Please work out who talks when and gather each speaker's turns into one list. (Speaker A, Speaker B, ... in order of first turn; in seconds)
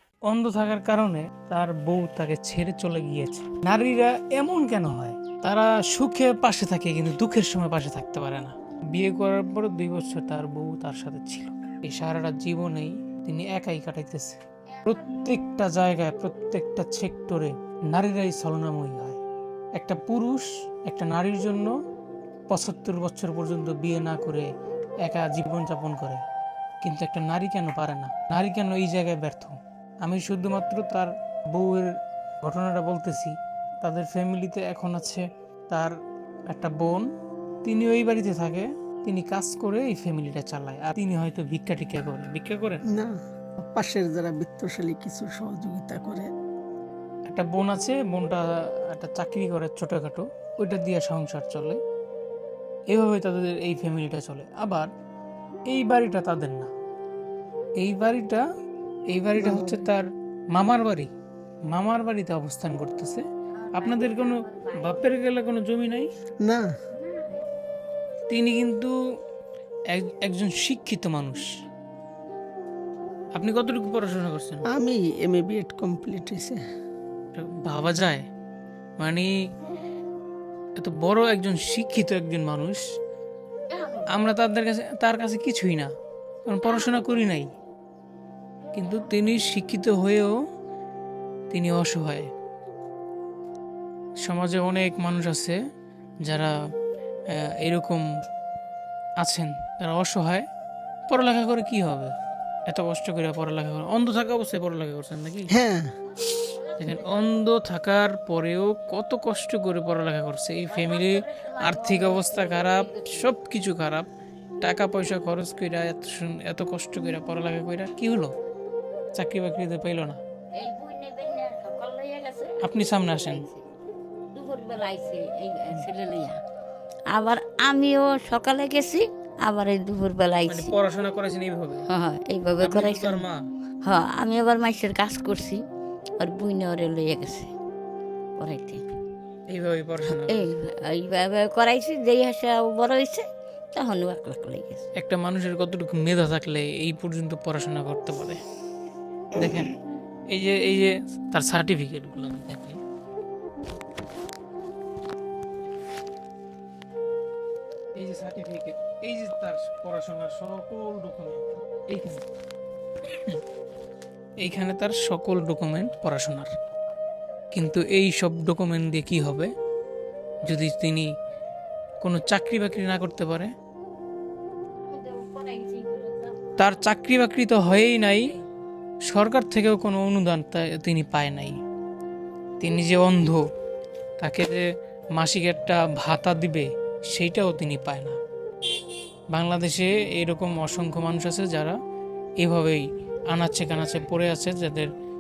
Speaker A: 0.3-19.2, 19.8-21.7, 22.5-24.5, 25.0-26.2, 26.8-35.9, 36.5-37.1, 37.6-42.8, 47.3-51.8, 52.9-54.9, 55.7-56.7, 57.8-58.4, 59.1-61.1, 61.7-66.1, 68.3-68.9, 69.9-71.5, 73.3-74.7, 77.3-78.3, 79.0-79.3, 80.8-82.8, 84.1-85.9, 86.5-87.5, 88.7-90.4, 91.5-92.3, 94.2-95.6, 96.2-96.5, 97.3-98.0, 99.2-100.5, 101.1-102.1, 102.7-105.5, 106.8-114.1, 114.6-118.3, 119.1-120.2, 122.6-123.5, 130.5-131.9, 132.6-133.4, 139.5-140.5, 145.0-148.4, 149.3-149.8, 150.3-152.8, 158.0-162.2, 164.4-166.5, 167.5-169.5, 170.4-171.1, 172.0-173.5, 176.6-178.3, 179.1-181.6, 182.6-183.4, 184.2-184.6, 185.2-188.2, 189.3-191.8, 192.4-194.9
Speaker B: 42.9-46.3, 59.4-59.9, 66.4-66.7, 74.7-76.6, 105.5-105.9
Speaker C: 63.6-65.1, 67.1-67.4, 83.7-84.1, 106.8-107.1, 110.7-113.3, 120.6-123.6, 124.3-126.4, 127.1-130.7, 131.9-133.2, 133.8-135.6, 136.2-137.5, 138.4-138.8, 140.1-144.8, 174.8-176.4